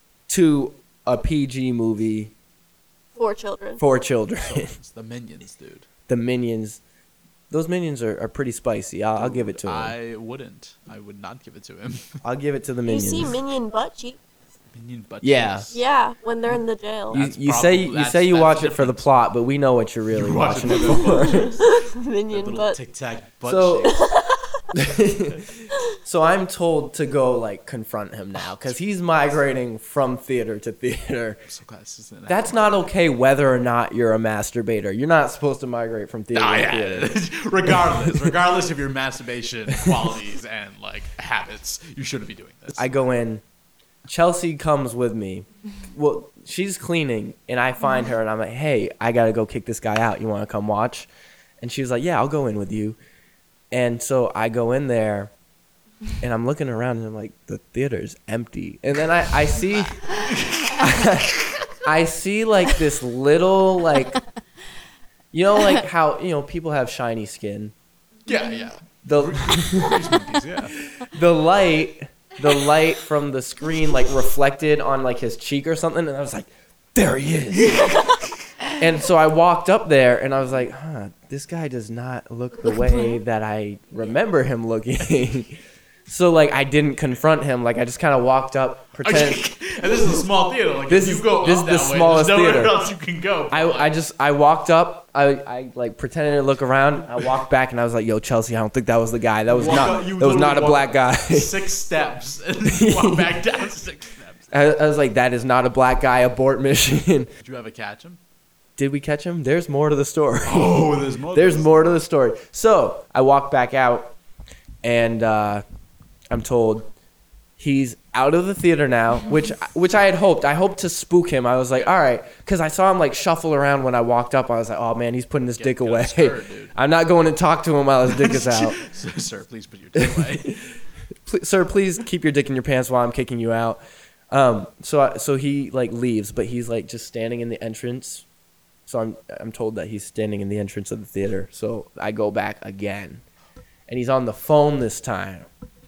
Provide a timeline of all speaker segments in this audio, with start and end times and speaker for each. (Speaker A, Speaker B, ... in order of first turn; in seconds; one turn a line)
Speaker A: 0.3-2.3
Speaker B: 3.1-3.8
Speaker A: 3.8-4.8
Speaker C: 4.4-5.8
Speaker A: 6.1-6.8
Speaker A: 7.5-9.9
Speaker C: 9.2-12.2
Speaker A: 12.2-13.4
Speaker B: 12.8-14.2
Speaker C: 14.7-15.8
Speaker A: 15.2-15.6
Speaker B: 15.7-17.2
Speaker C: 17.1-19.1
Speaker A: 17.1-21.6
Speaker C: 20.1-24.0
Speaker B: 21.1-22.8
Speaker A: 23.4-23.9
Speaker B: 23.8-24.6
Speaker A: 24.7-25.5
Speaker A: 26.0-31.4
Speaker C: 31.5-32.7
Speaker A: 32.3-37.1
Speaker C: 36.3-42.9
Speaker A: 37.9-38.3
Speaker A: 42.7-43.4
Speaker A: 44.0-51.1
Speaker A: 51.6-53.0
Speaker A: 53.7-55.3
Speaker A: 56.2-60.0
Speaker C: 60.1-60.9
Speaker A: 60.8-64.2
Speaker A: 65.3-67.7
Speaker C: 68.2-70.7
Speaker A: 69.0-70.0
Speaker A: 70.9-77.8
Speaker C: 77.5-78.3
Speaker A: 78.8-89.4
Speaker C: 89.0-93.9
Speaker A: 90.9-92.7
Speaker A: 93.5-101.5
Speaker C: 99.5-104.5
Speaker A: 102.6-103.3
Speaker A: 104.5-107.3
Speaker C: 107.4-108.2
Speaker A: 108.8-114.2
Speaker C: 110.4-111.9
Speaker A: 114.8-115.6
Speaker A: 116.3-116.9
Speaker A: 117.6-128.8
Speaker C: 125.5-126.7
Speaker C: 128.1-130.6
Speaker A: 129.9-130.5
Speaker A: 131.2-133.8
Speaker A: 134.3-138.2
Speaker A: 138.9-143.2
Speaker A: 143.9-145.5